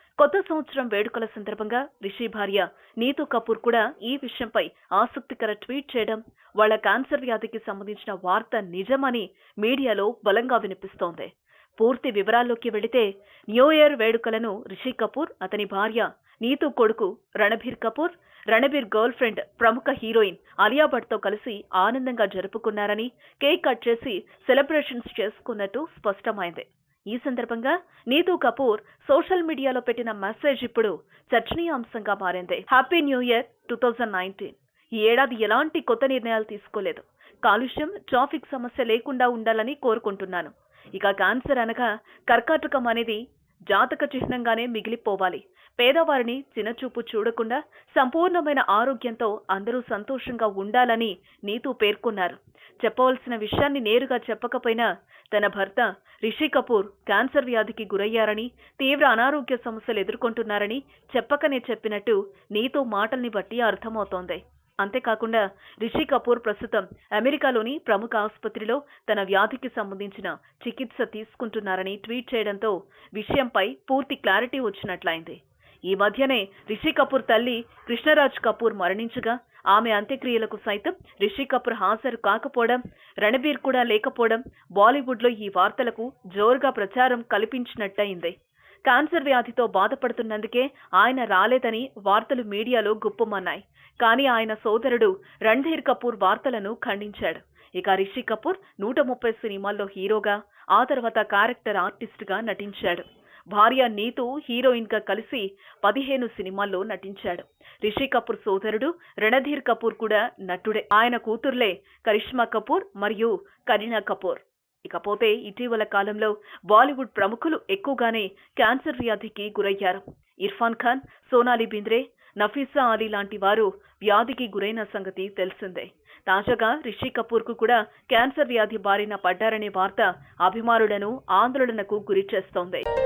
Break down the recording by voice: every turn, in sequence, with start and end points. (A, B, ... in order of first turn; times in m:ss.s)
0:00.2-2:12.8 A